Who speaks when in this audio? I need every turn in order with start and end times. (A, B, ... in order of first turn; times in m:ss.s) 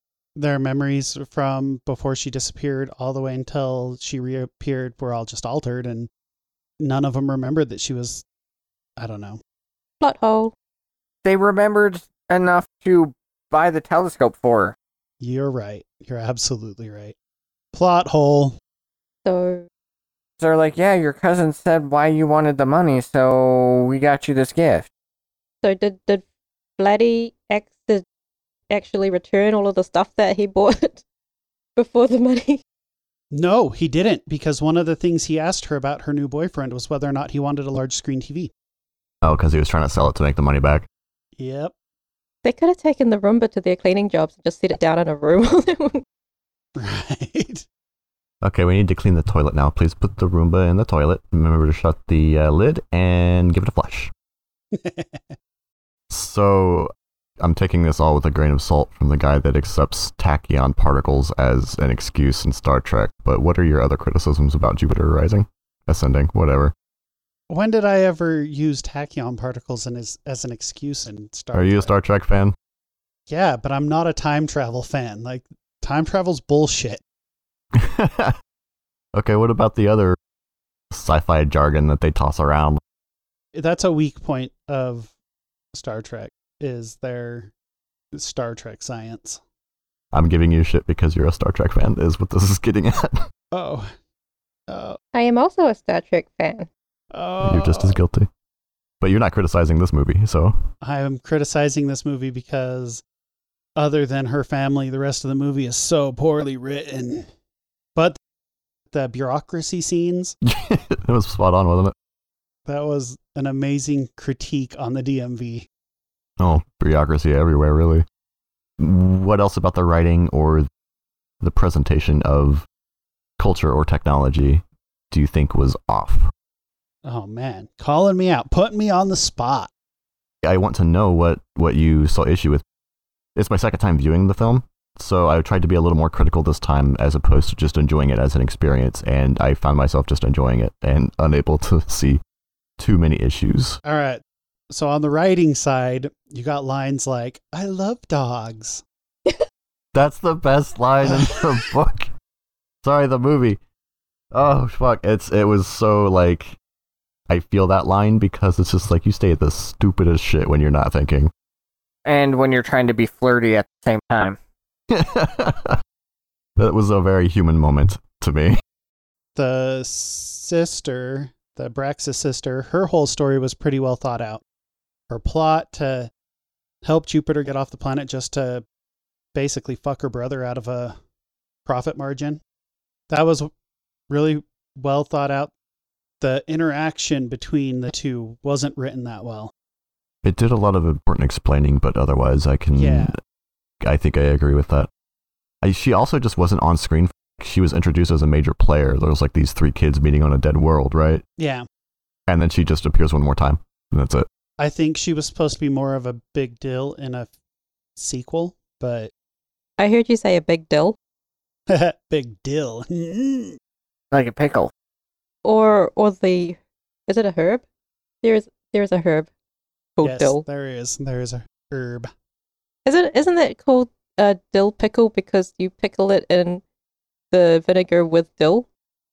0:00.4-0:06.1 A
0:06.8-0:08.2 A
0:09.0-0:09.4 A
0:10.0-0:10.5 B
0:11.2-0:14.8 C
0:15.2-0:17.1 A
0:17.7-0:18.6 A
0:19.2-0:19.7 B
0:20.4-0:24.9 C
0:25.6-0:26.2 B
0:26.8-0:28.0 B
0:28.7-0:31.0 B
0:31.8-0:32.6 B
0:33.3-0:38.5 A
0:39.2-0:40.9 D
0:41.4-0:41.7 A
0:42.4-0:46.0 B
0:46.8-0:47.7 A
0:48.4-0:54.1 D
0:54.7-0:55.4 A
0:56.1-0:56.9 D
0:57.4-1:06.7 D
1:07.5-1:11.9 A
1:11.5-1:12.6 D
1:13.3-1:17.0 A
1:17.8-1:18.3 D
1:19.2-1:20.2 D
1:20.9-1:22.8 D
1:23.5-1:25.1 A
1:25.7-1:27.5 A
1:28.1-1:29.4 A
1:30.1-1:33.3 D
1:33.5-1:33.9 A
1:34.7-1:35.0 A
1:35.1-1:36.7 B
1:37.1-1:38.0 A
1:37.4-1:38.3 D
1:39.0-1:40.6 D
1:40.8-1:43.0 A
1:43.8-1:47.3 A
1:48.9-1:50.4 A
1:50.4-1:51.9 D
1:52.7-1:55.7 A
1:56.4-1:58.0 D
1:58.8-2:00.7 D
2:01.4-2:02.7 D
2:03.4-2:06.3 D
2:07.0-2:09.7 A
2:10.4-2:12.6 D
2:13.4-2:22.2 D
2:22.8-2:23.8 D
2:23.8-2:28.8 A
2:29.9-2:32.1 D
2:32.8-2:33.6 D
2:34.3-2:36.6 D
2:37.3-2:41.3 D
2:42.1-2:44.4 C
2:44.9-2:45.8 D
2:46.6-2:48.6 D
2:49.4-2:54.4 A
2:55.1-2:56.1 A
2:56.8-2:58.6 A
2:59.4-3:01.0 A
3:01.7-3:02.4 A
3:03.1-3:03.5 A
3:04.1-3:05.5 A
3:06.2-3:09.5 A
3:10.2-3:13.1 D
3:12.8-3:13.1 A
3:13.8-3:14.9 D
3:15.6-3:21.2 D
3:21.4-3:21.6 A
3:22.3-3:24.3 D
3:24.6-3:27.3 A
3:28.0-3:29.1 A
3:29.8-3:31.0 B
3:31.7-3:33.6 A
3:34.1-3:34.7 C
3:35.4-3:37.6 B
3:38.2-3:39.3 B
3:40.0-3:40.4 B
3:40.0-3:42.1 A
3:42.9-3:46.6 B
3:47.3-3:48.7 B